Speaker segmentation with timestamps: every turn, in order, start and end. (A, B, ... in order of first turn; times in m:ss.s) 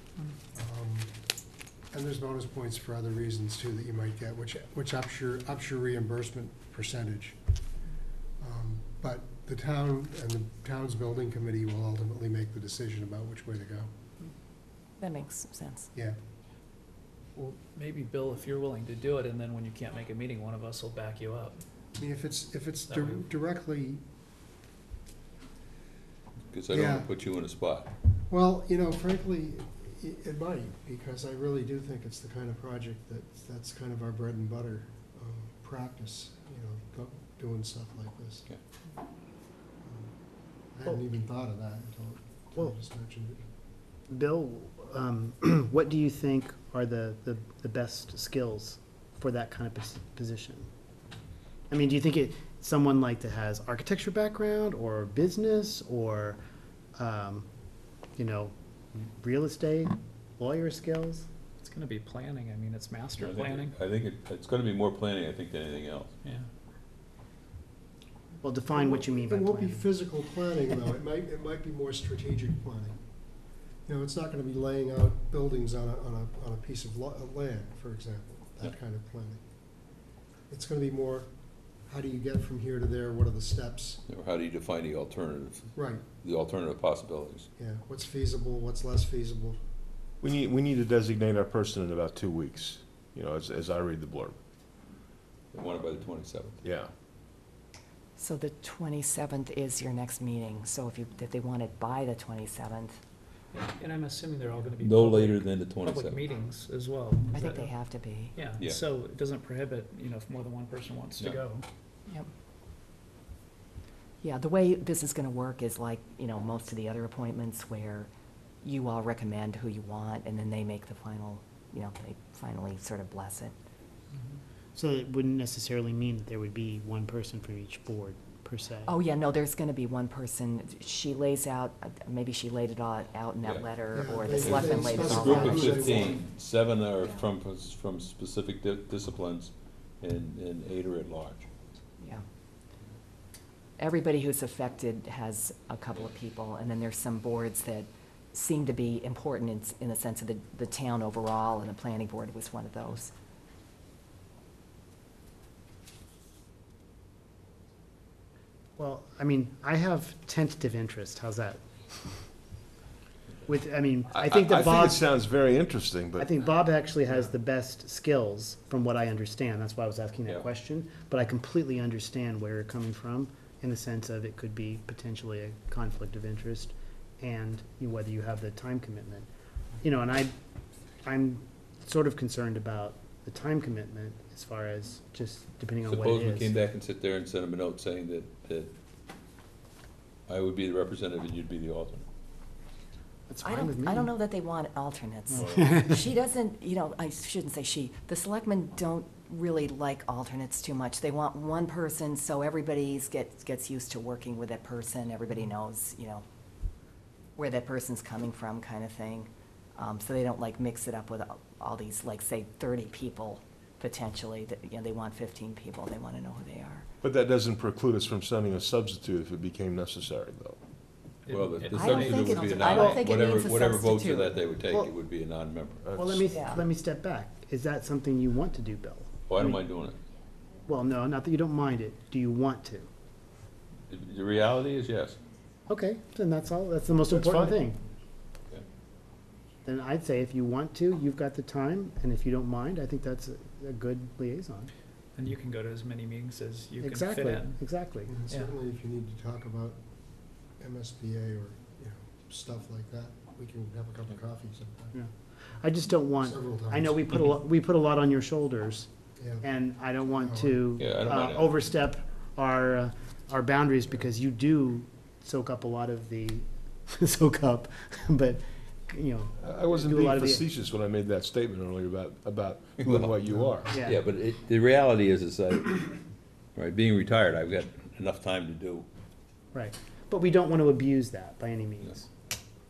0:00.5-0:01.1 A
0:01.9-0:07.4 A
0:08.4-0:13.9 A
0:15.0-0:15.9 B
0:17.4-0:21.6 C
0:22.0-0:24.0 A
0:22.9-0:23.2 C
0:26.5-0:27.9 D
0:26.7-0:27.1 A
0:28.3-0:38.5 A
0:39.8-0:40.1 A
0:40.7-0:43.4 A
0:44.1-0:50.7 E
0:51.7-0:56.4 E
0:57.0-0:57.5 E
0:58.2-1:01.2 E
1:01.6-1:03.8 C
1:03.2-1:06.1 D
1:06.2-1:06.5 C
1:08.4-1:09.8 E
1:08.7-1:13.0 A
1:13.8-1:19.4 A
1:20.5-1:21.3 A
1:21.8-1:24.0 A
1:24.1-1:27.5 D
1:25.7-1:26.0 A
1:27.6-1:29.6 A
1:30.2-1:34.4 F
1:35.5-1:36.6 D
1:36.6-1:36.9 F
1:38.2-1:43.0 B
1:43.5-1:47.7 C
1:44.8-1:46.2 D
1:47.3-1:48.3 B
1:48.3-1:51.6 C
1:54.2-1:58.1 B
1:58.6-2:03.5 B
2:04.7-2:09.0 E
2:08.8-2:16.2 B
2:13.9-2:16.2 A
2:14.3-2:21.5 D
2:23.8-2:33.1 B
2:38.8-2:41.6 E
2:43.4-2:45.0 E
2:44.1-2:46.3 F
2:46.2-2:59.3 E
2:59.8-3:00.3 E
3:01.0-3:06.5 E
3:05.8-3:08.7 D
3:10.3-3:12.0 D
3:13.3-3:14.1 E
3:13.4-3:26.2 B
3:15.3-3:15.8 D
3:15.3-3:16.0 E
3:27.4-3:36.9 B
3:37.0-3:40.6 F
3:41.2-3:42.8 C
3:41.3-3:45.8 D
3:41.7-3:44.4 B
3:42.7-3:43.0 E
3:45.8-3:46.6 F
3:46.0-3:49.6 E
3:46.3-3:46.6 B
3:49.3-3:50.0 D
3:50.6-3:52.9 E
3:53.9-3:55.2 D
3:55.7-3:57.8 E
3:59.6-4:04.7 E
4:05.1-4:07.6 C
4:06.8-4:08.2 E
4:08.1-4:09.8 A
4:08.3-4:08.6 C
4:10.6-4:14.9 A
4:14.9-4:18.9 E
4:16.2-4:17.3 A
4:19.2-4:19.5 A
4:19.4-4:30.4 E
4:20.2-4:20.7 A
4:20.8-4:21.5 D
4:29.4-4:33.7 F
4:32.8-4:33.1 D
4:33.7-4:34.0 E
4:33.8-4:36.0 D
4:36.5-4:38.9 D
4:39.5-4:42.0 E